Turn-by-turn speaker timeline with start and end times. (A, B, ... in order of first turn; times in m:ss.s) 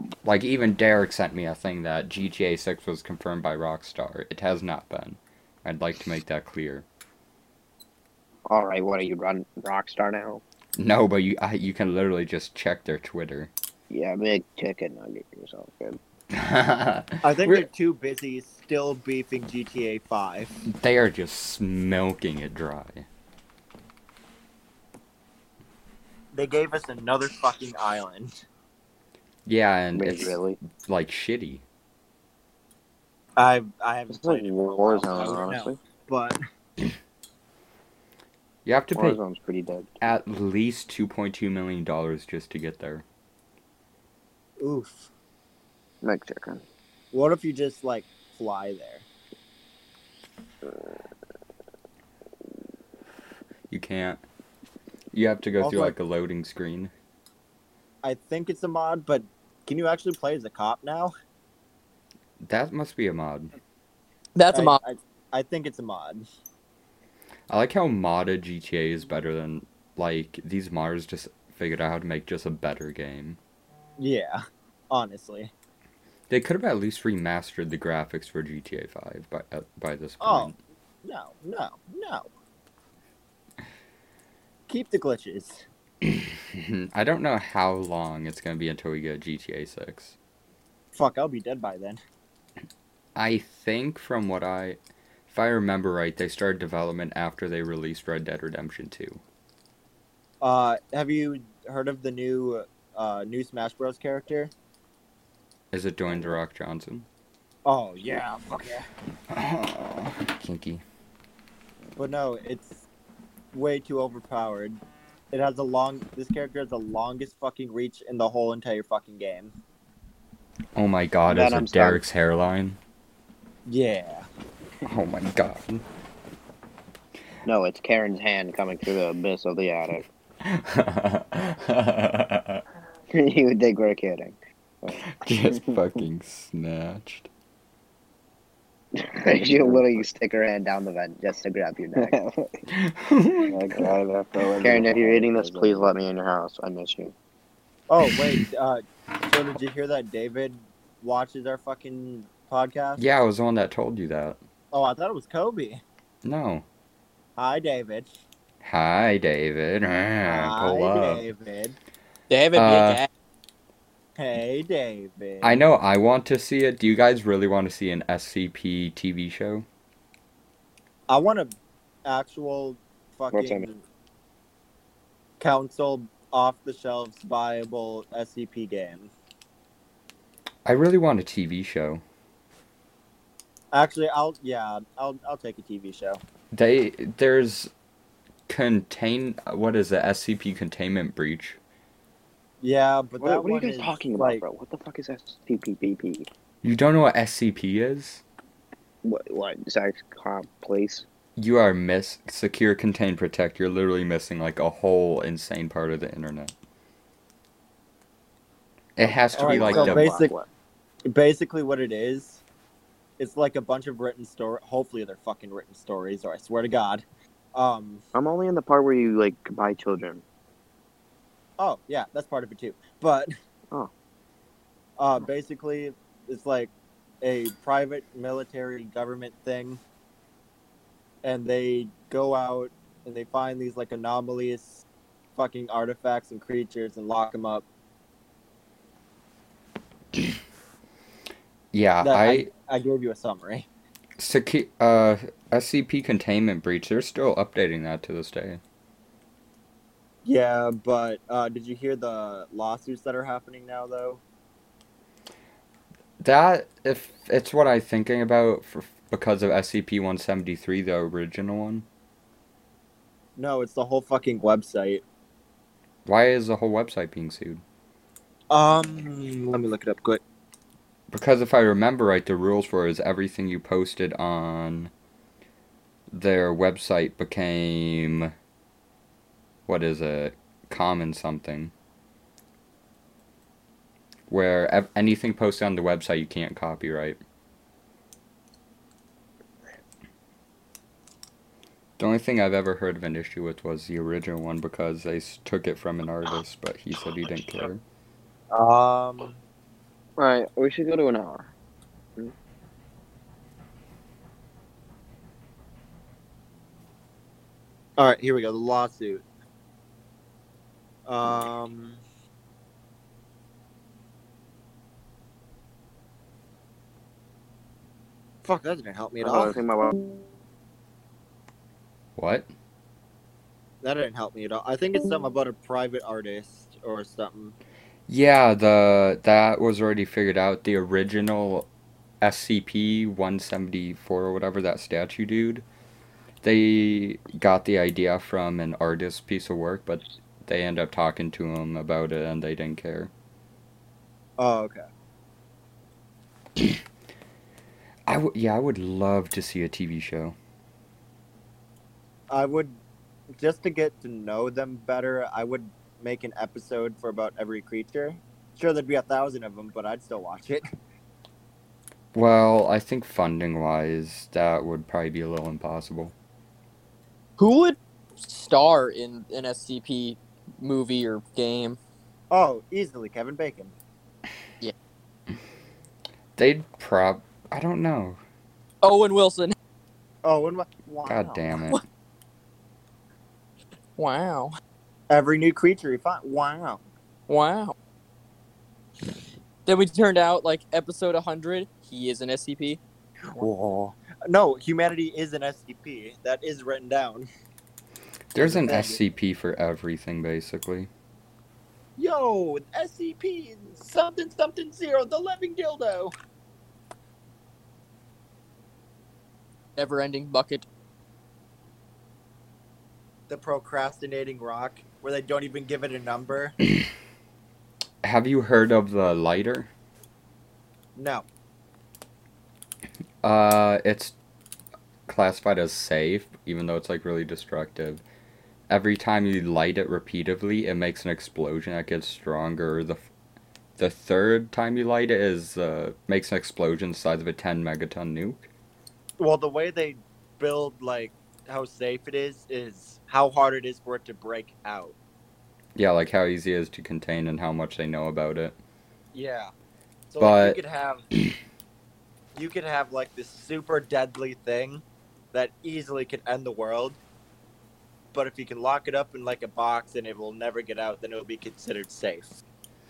0:00.2-0:06.8 A
0:08.5-0:10.4 B
0:10.8-0:13.5 A
0:13.9-0:16.0 B
0:16.3-0:17.7 A
0:17.2-0:20.6 C
0:20.6-0:23.1 A
0:26.3-0:28.3 C
0:29.4-0:31.6 A
0:29.9-0:30.6 B
0:33.4-0:36.4 C
0:34.1-0:35.8 B
0:38.6-0:39.2 A
0:38.9-0:40.0 B
0:40.0-0:43.0 A
0:44.6-0:45.1 C
0:46.0-0:46.6 B
0:47.1-0:49.0 C
0:53.7-0:54.2 A
0:55.1-0:56.9 A
0:55.6-0:55.9 C
0:58.0-1:01.1 C
1:02.4-1:03.5 A
1:04.3-1:04.8 D
1:04.5-1:06.2 C
1:07.5-1:13.4 A
1:14.0-1:15.5 C
1:16.3-1:20.6 A
1:20.2-1:20.5 C
1:21.0-1:22.3 C
1:24.7-1:25.6 C
1:26.0-1:30.2 A
1:30.9-1:32.0 C
1:33.2-1:39.2 A
1:40.4-1:44.5 C
1:45.7-1:47.1 A
1:47.6-1:48.9 C
1:49.3-1:50.8 A
1:52.0-1:52.8 C
1:53.5-1:54.8 C
1:55.3-1:59.5 C
2:00.8-2:02.8 A
2:01.3-2:02.0 B
2:03.7-2:04.3 C
2:04.8-2:05.8 A
2:07.4-2:10.0 B
2:10.4-2:12.6 A
2:13.1-2:15.0 B
2:15.0-2:17.3 A
2:19.1-2:22.2 B
2:19.2-2:20.0 E
2:22.0-2:22.5 E
2:22.7-2:23.6 A
2:23.5-2:25.9 E
2:24.6-2:27.1 B
2:27.9-2:33.0 C
2:33.0-2:34.4 A
2:34.7-2:35.8 C
2:36.2-2:36.6 A
2:37.4-2:38.1 C
2:38.6-2:41.2 A
2:40.2-2:41.8 C
2:42.3-2:43.1 D
2:42.5-2:43.0 A
2:44.2-2:45.6 C
2:45.4-2:49.6 A
2:51.1-2:53.8 C
2:53.3-2:53.7 B
2:55.4-2:59.1 C
3:00.6-3:02.0 A
3:03.7-3:06.2 C
3:06.5-3:07.7 A
3:08.5-3:11.6 A
3:12.6-3:14.4 C
3:13.2-3:16.3 B
3:16.6-3:18.2 A
3:19.0-3:21.0 B
3:21.4-3:26.5 A
3:29.0-3:30.1 A
3:29.0-3:30.5 B
3:29.3-3:30.4 C
3:31.1-3:32.4 C
3:33.2-3:37.0 C
3:37.5-3:38.0 C
3:38.1-3:40.2 B
3:41.6-3:43.3 C
3:45.0-3:49.8 C
3:51.2-3:54.8 C
3:55.4-3:57.6 C
4:01.7-4:02.5 A
4:02.0-4:03.7 C
4:04.2-4:08.6 A
4:10.2-4:14.2 C
4:16.2-4:21.8 A
4:23.4-4:25.0 C
4:26.0-4:27.6 A
4:28.5-4:30.2 C
4:31.1-4:34.9 A
4:36.1-4:38.3 A
4:39.7-4:41.7 A
4:44.3-4:47.2 A
4:52.0-4:57.8 A
4:58.5-4:59.4 C
5:00.2-5:01.5 B
5:08.0-5:09.2 C
5:11.1-5:12.0 C
5:18.4-5:19.6 C
5:19.2-5:20.1 B
5:22.2-5:22.5 A
5:23.8-5:27.6 C
5:28.1-5:31.7 A
5:32.2-5:35.6 A
5:36.4-5:43.1 A
5:44.4-5:44.8 C
5:48.1-5:50.4 A
5:52.3-5:52.8 C
5:53.4-6:00.6 C
6:02.1-6:06.1 A
6:07.4-6:11.8 D
6:12.3-6:13.7 C
6:16.4-6:18.2 A
6:18.8-6:19.5 D
6:20.2-6:21.4 C
6:21.1-6:21.8 A
6:24.0-6:24.5 D
6:25.1-6:26.8 C
6:27.3-6:27.7 D
6:29.6-6:32.8 D
6:33.2-6:37.3 C
6:38.3-6:40.9 A
6:38.4-6:39.0 C
6:42.0-6:46.1 C
6:49.8-6:50.6 D
6:53.3-6:56.6 C
6:58.0-6:59.7 A
7:01.0-7:01.2 C
7:03.2-7:04.2 A
7:05.1-7:08.0 A
7:08.7-7:13.1 A
7:13.8-7:18.5 A
7:19.2-7:25.0 C
7:25.8-7:28.6 A
7:29.1-7:29.5 C
7:30.1-7:31.0 C
7:30.2-7:30.6 A
7:32.3-7:37.0 C
7:38.1-7:42.4 C